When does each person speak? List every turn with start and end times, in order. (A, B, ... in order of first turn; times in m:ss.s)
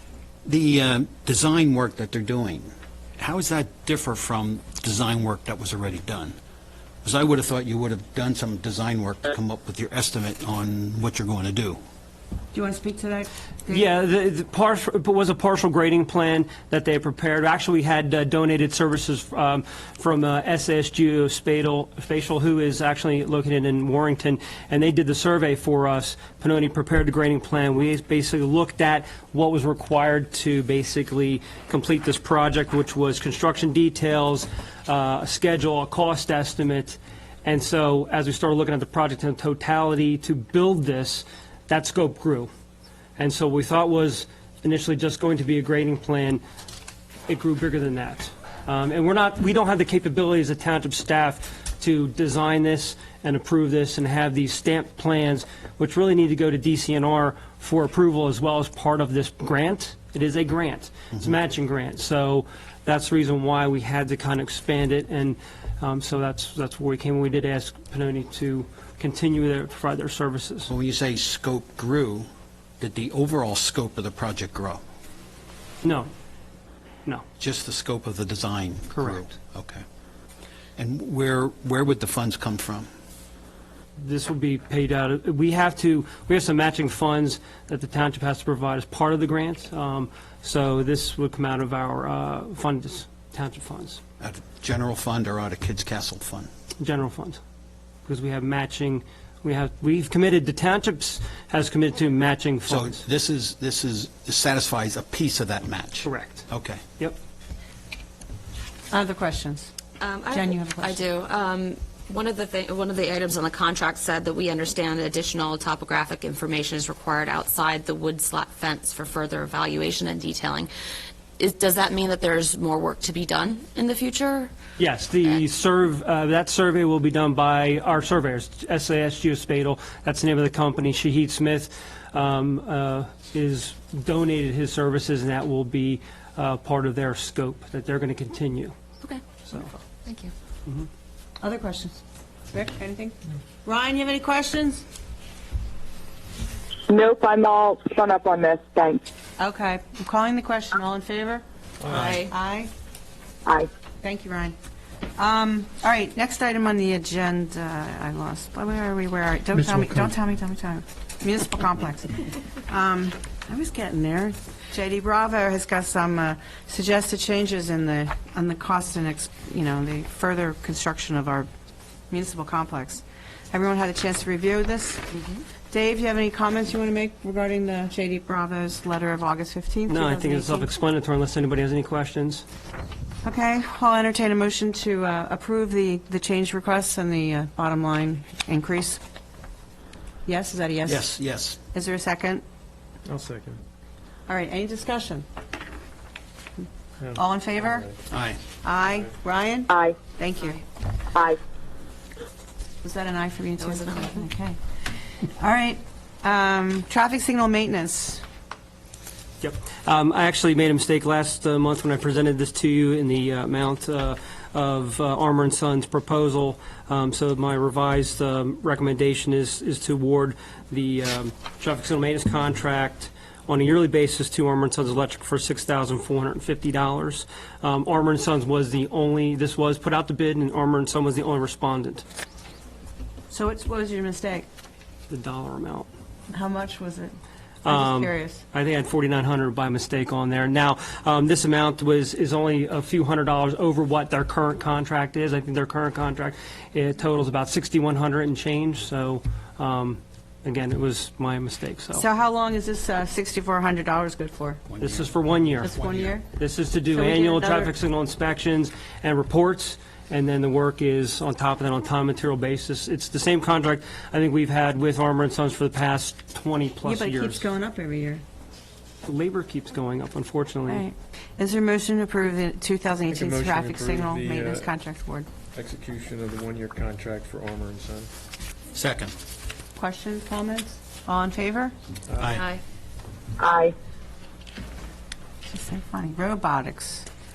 0:00.5-0:06.4 A
0:07.0-0:11.8 A
0:12.5-0:13.9 B
0:13.7-0:42.5 C
0:43.2-0:46.4 C
0:47.3-1:10.7 C
1:10.7-1:12.3 A
1:12.8-1:14.8 A
1:15.8-1:16.1 C
1:17.4-1:19.8 A
1:18.9-1:19.3 C
1:20.8-1:22.9 A
1:24.0-1:34.0 C
1:34.2-1:36.5 A
1:36.8-1:37.4 C
1:38.1-1:43.0 C
1:42.7-1:46.8 A
1:46.0-1:46.5 C
1:48.9-1:49.7 B
1:50.0-2:00.7 D
1:50.3-1:51.0 B
2:01.4-2:04.5 D
2:04.8-2:18.7 C
2:19.0-2:20.3 D
2:21.4-2:24.8 B
2:26.9-2:29.0 E
2:29.4-2:31.4 B
2:31.8-2:32.2 F
2:32.0-2:32.3 D
2:32.2-2:32.7 B
2:34.0-2:34.6 B
2:35.2-2:51.5 B
2:52.1-2:55.1 B
2:55.7-3:00.8 B
2:59.9-3:02.4 C
3:03.2-3:09.0 B
3:10.2-3:11.1 B
3:10.8-3:11.6 A
3:11.7-3:12.4 B
3:13.0-3:13.6 F
3:14.3-3:15.3 B
3:17.0-3:18.0 F
3:17.1-3:17.9 B
3:18.1-3:18.4 A
3:18.6-3:20.6 B
3:19.7-3:20.0 E
3:22.8-3:24.6 B
3:25.2-3:28.2 B
3:29.4-3:52.0 C
3:53.3-3:54.5 B
3:55.1-3:55.9 C
3:56.3-3:57.2 B
3:57.6-4:12.0 C
3:57.7-3:58.4 B
4:12.0-4:14.7 B
4:14.7-4:16.2 A
4:14.8-4:15.8 C
4:15.6-4:16.3 B
4:16.4-4:27.5 C
4:16.9-4:17.8 B
4:26.8-4:28.2 B
4:29.0-4:30.8 C
4:30.7-4:35.3 B
4:33.1-4:34.7 F
4:35.5-4:38.1 F
4:38.7-4:39.1 A
4:39.8-4:41.7 B
4:42.1-4:42.4 F
4:42.2-4:42.4 A
4:43.4-4:43.7 E
4:45.5-4:47.1 B